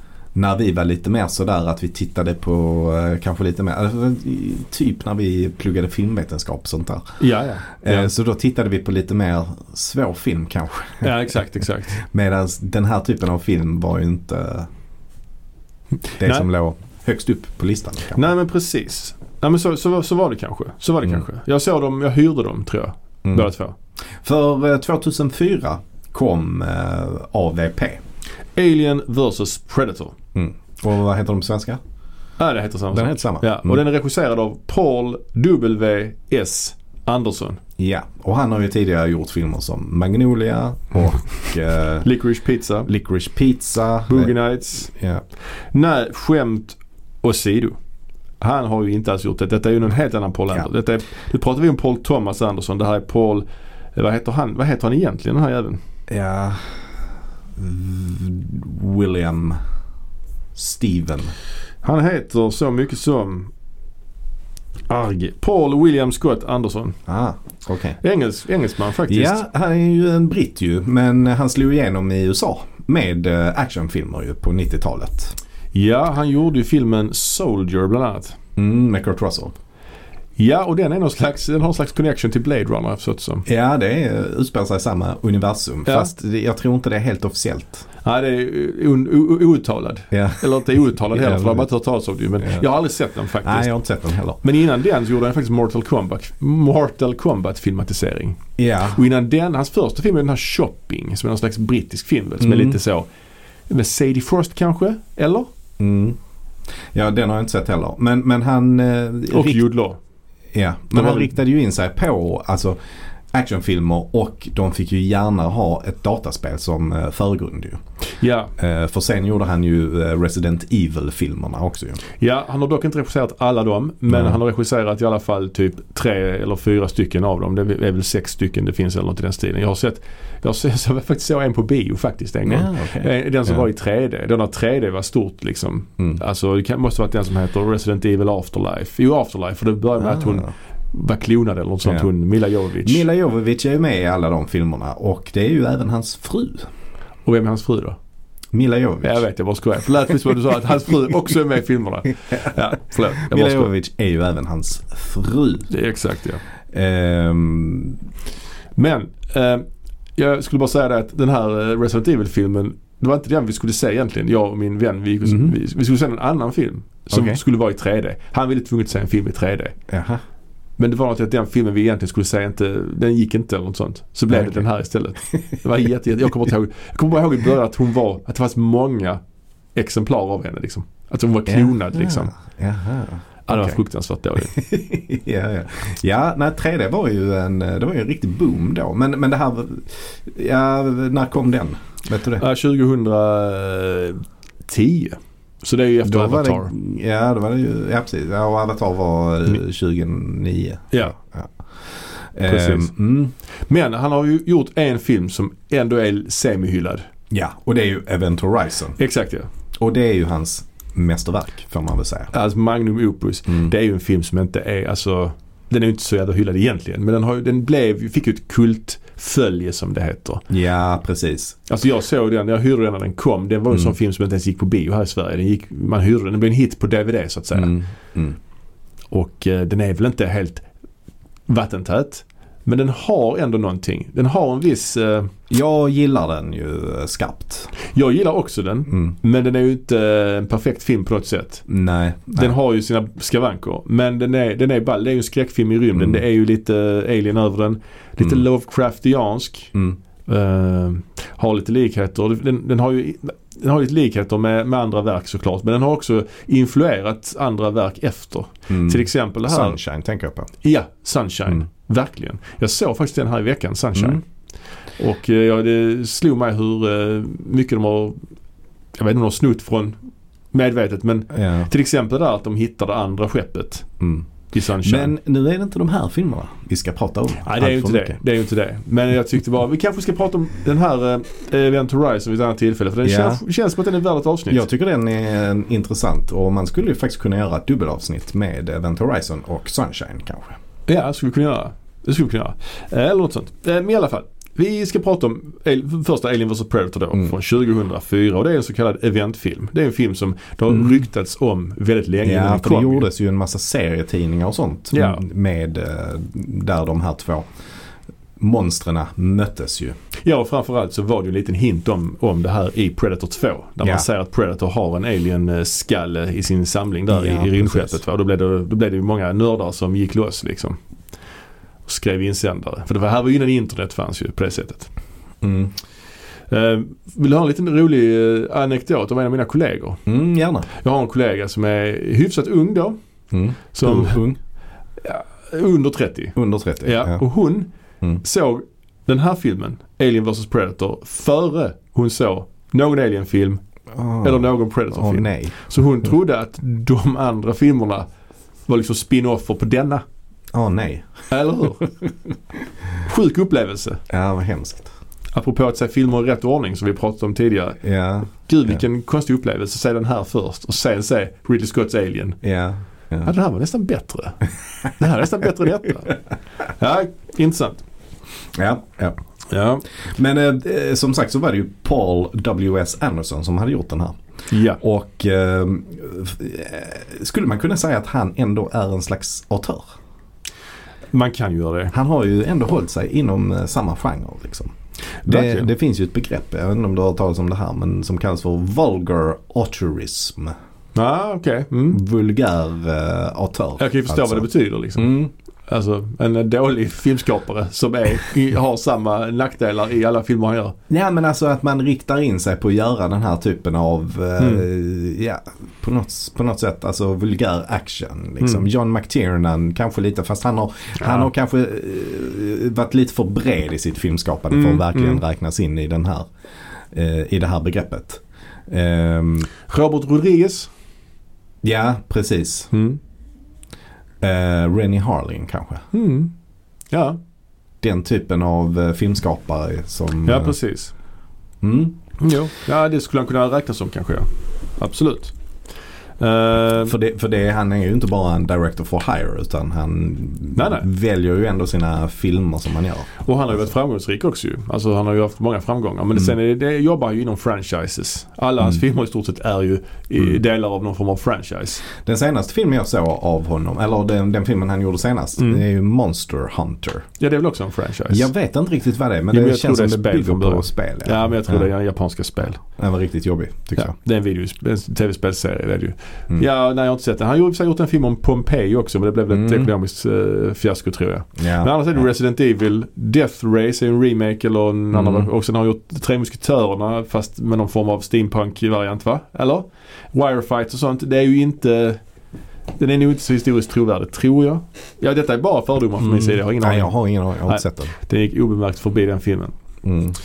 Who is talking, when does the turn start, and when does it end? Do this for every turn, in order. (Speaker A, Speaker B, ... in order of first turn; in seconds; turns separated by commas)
Speaker A: 0.3-7.2, Speaker B: 7.2-8.1, Speaker A: 7.8-11.1, Speaker B: 11.0-12.0, Speaker A: 12.0-14.7, Speaker B: 16.1-16.5, Speaker A: 16.2-18.3, Speaker B: 18.1-23.8, Speaker A: 24.2-28.0, Speaker B: 28.6-30.1, Speaker A: 30.4-31.8, Speaker B: 32.4-37.6, Speaker A: 32.9-33.8, Speaker A: 37.8-42.1, Speaker B: 42.0-42.9, Speaker A: 42.9-44.3, Speaker B: 44.1-44.9, Speaker A: 44.9-45.2, Speaker B: 45.7-47.8, Speaker B: 48.4-53.5, Speaker B: 54.0-55.8, Speaker A: 56.1-56.9, Speaker A: 57.6-59.6, Speaker A: 60.5-61.3, Speaker B: 61.8-63.5, Speaker B: 64.9-67.0, Speaker A: 67.1-68.0, Speaker B: 68.0-69.4, Speaker A: 69.1-75.4, Speaker B: 75.7-78.4, Speaker A: 78.6-79.6, Speaker B: 80.4-83.5, Speaker A: 83.5-87.9, Speaker B: 85.9-86.1, Speaker B: 88.0-93.7, Speaker A: 90.1-91.7, Speaker A: 93.4-94.4, Speaker B: 94.4-103.1, Speaker A: 98.6-99.0, Speaker A: 102.4-102.8, Speaker B: 103.7-105.5, Speaker A: 105.8-106.2, Speaker A: 106.9-109.6, Speaker B: 109.3-110.0, Speaker A: 110.5-112.8, Speaker B: 111.0-111.3, Speaker A: 113.3-117.8, Speaker B: 118.2-118.5, Speaker A: 118.6-122.0, Speaker B: 122.2-143.1, Speaker A: 124.1-124.4, Speaker A: 132.5-133.6, Speaker A: 140.0-140.5, Speaker A: 142.8-146.7, Speaker B: 147.3-148.0, Speaker A: 148.5-149.2, Speaker B: 149.0-153.7, Speaker A: 153.2-155.7, Speaker B: 155.7-156.4, Speaker A: 156.7-158.0, Speaker B: 158.8-159.7, Speaker B: 160.2-169.8, Speaker A: 165.3-165.5, Speaker A: 167.1-167.4, Speaker A: 169.9-170.2, Speaker B: 170.8-179.2, Speaker A: 174.3-174.6, Speaker B: 179.8-182.3, Speaker A: 181.5-183.8, Speaker B: 183.5-184.6, Speaker A: 184.5-192.4, Speaker B: 192.3-196.7, Speaker A: 196.0-201.5, Speaker A: 202.3-203.3, Speaker B: 202.5-202.9, Speaker B: 203.7-207.1, Speaker A: 207.3-209.0, Speaker B: 209.0-209.5, Speaker A: 209.8-212.3, Speaker B: 212.3-220.4, Speaker A: 220.5-221.6, Speaker B: 221.7-227.8, Speaker A: 227.5-228.4, Speaker B: 229.1-230.7, Speaker B: 231.5-235.3, Speaker A: 235.5-237.7, Speaker B: 237.8-241.7, Speaker A: 241.7-242.5, Speaker B: 242.3-249.7, Speaker A: 245.9-246.2, Speaker B: 250.3-259.8, Speaker A: 258.7-260.5, Speaker B: 260.6-264.2, Speaker B: 265.0-268.2, Speaker B: 269.0-270.0, Speaker B: 270.5-273.9, Speaker A: 271.3-271.7, Speaker A: 274.0-274.3, Speaker B: 274.5-275.1, Speaker A: 274.8-278.2, Speaker B: 277.4-284.6, Speaker A: 283.1-283.4, Speaker A: 284.5-290.6, Speaker B: 290.9-303.1, Speaker A: 300.7-301.0, Speaker A: 302.2-307.5, Speaker B: 304.9-305.2, Speaker A: 308.4-310.0, Speaker B: 310.2-320.8, Speaker A: 317.1-318.0, Speaker B: 321.9-324.9, Speaker A: 325.4-325.7, Speaker B: 326.5-330.0, Speaker A: 330.1-330.7, Speaker B: 330.7-333.0, Speaker A: 333.3-334.4, Speaker B: 333.7-334.2, Speaker B: 335.0-337.7, Speaker A: 336.4-337.2, Speaker B: 338.2-343.6, Speaker A: 343.9-345.6, Speaker B: 344.2-348.1, Speaker B: 348.7-350.0, Speaker A: 350.5-351.1, Speaker B: 351.3-351.9, Speaker B: 353.0-354.0, Speaker A: 354.1-354.9, Speaker B: 355.3-357.8, Speaker A: 357.8-358.8, Speaker B: 358.4-362.4, Speaker A: 362.4-363.3, Speaker B: 363.2-367.8, Speaker A: 368.5-369.2, Speaker B: 369.5-369.8, Speaker A: 370.1-374.2, Speaker B: 374.5-374.8, Speaker A: 374.8-379.9, Speaker B: 381.1-381.9, Speaker A: 381.9-390.6, Speaker B: 385.2-385.7, Speaker B: 390.9-392.0, Speaker A: 391.9-395.3, Speaker B: 393.8-400.8, Speaker A: 400.9-416.3, Speaker B: 404.4-404.7, Speaker B: 411.0-411.3, Speaker B: 414.5-415.2, Speaker A: 416.9-419.5, Speaker B: 419.7-420.7, Speaker A: 421.6-422.7, Speaker B: 422.7-423.0, Speaker A: 424.2-425.9, Speaker B: 425.9-426.3, Speaker B: 426.9-427.2, Speaker A: 427.8-430.5, Speaker B: 430.2-430.9, Speaker A: 431.6-432.0, Speaker B: 432.2-435.3, Speaker B: 436.2-436.9, Speaker A: 436.8-443.1, Speaker B: 440.6-440.9, Speaker B: 443.2-451.8, Speaker A: 451.9-457.1, Speaker B: 455.4-455.6, Speaker B: 457.2-458.3, Speaker A: 458.1-461.7, Speaker B: 459.3-462.6, Speaker A: 462.7-463.9, Speaker B: 463.8-482.0, Speaker A: 469.3-469.7, Speaker A: 471.4-472.0, Speaker A: 474.9-475.3, Speaker B: 482.8-486.9, Speaker A: 486.0-487.9, Speaker B: 487.5-489.5, Speaker A: 489.8-490.2